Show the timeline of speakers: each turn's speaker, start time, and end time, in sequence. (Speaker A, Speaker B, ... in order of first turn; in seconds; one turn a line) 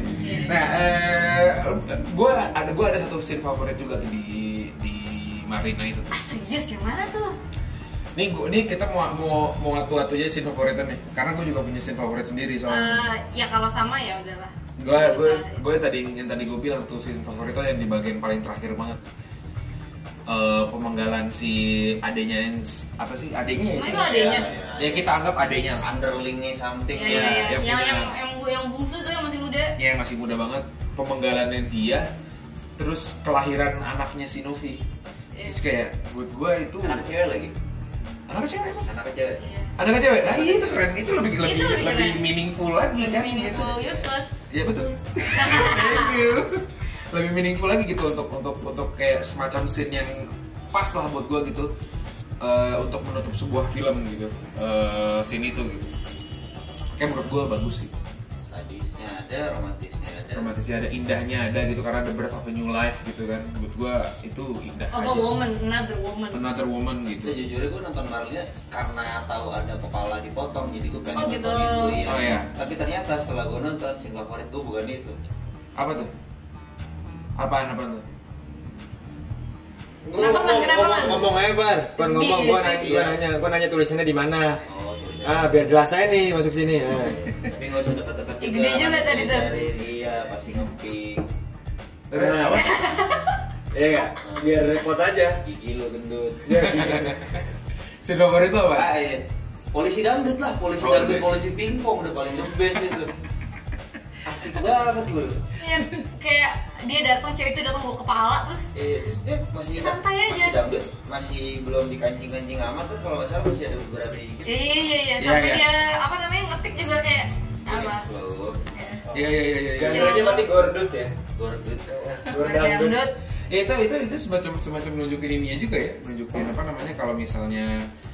Speaker A: 0.2-0.6
Speaker B: 0.4-6.1
Speaker A: 6.1-7.3
Speaker B: 8.2-13.0
Speaker A: 12.7-15.6
Speaker B: 14.8-19.0
Speaker B: 20.3-25.9
Speaker A: 23.8-24.5
Speaker C: 23.8-25.1
Speaker C: 25.8-27.5
Speaker A: 26.9-29.8
Speaker B: 27.0-28.1
Speaker B: 29.8-32.1
Speaker B: 32.8-34.8
Speaker B: 35.5-37.1
Speaker C: 36.8-37.5
Speaker B: 38.3-38.9
Speaker C: 38.9-39.4
Speaker A: 39.4-39.7
Speaker B: 39.8-43.9
Speaker C: 40.3-40.9
Speaker A: 41.4-42.3
Speaker A: 43.0-44.4
Speaker B: 44.5-51.7
Speaker A: 45.3-46.1
Speaker B: 52.4-55.9
Speaker B: 57.0-57.9
Speaker C: 58.5-60.5
Speaker B: 60.3-65.3
Speaker A: 64.9-66.4
Speaker B: 66.3-67.4
Speaker C: 67.2-75.2
Speaker A: 71.2-72.0
Speaker B: 72.0-72.5
Speaker B: 75.8-76.1
Speaker B: 77.4-78.0
Speaker D: 80.0-84.6
Speaker A: 80.2-81.2
Speaker A: 82.0-82.9
Speaker C: 82.7-83.2
Speaker C: 84.7-85.6
Speaker D: 85.2-87.2
Speaker C: 86.9-91.2
Speaker A: 88.4-89.7
Speaker B: 92.1-92.8
Speaker D: 92.1-92.7
Speaker A: 92.5-93.4
Speaker D: 93.7-95.4
Speaker C: 94.2-94.8
Speaker C: 95.4-97.0
Speaker D: 96.5-97.2
Speaker B: 96.5-97.3
Speaker B: 98.0-98.9
Speaker C: 98.8-103.1
Speaker B: 100.8-101.4
Speaker C: 104.3-105.4
Speaker A: 105.6-108.7
Speaker C: 108.7-114.6
Speaker A: 109.8-110.6
Speaker A: 114.5-118.1
Speaker B: 115.2-115.7
Speaker C: 117.7-118.6
Speaker A: 118.7-119.0
Speaker D: 119.1-121.1
Speaker B: 119.1-120.3
Speaker A: 119.9-120.5
Speaker C: 121.4-122.2
Speaker D: 121.9-123.0
Speaker A: 122.4-123.2
Speaker B: 123.5-127.9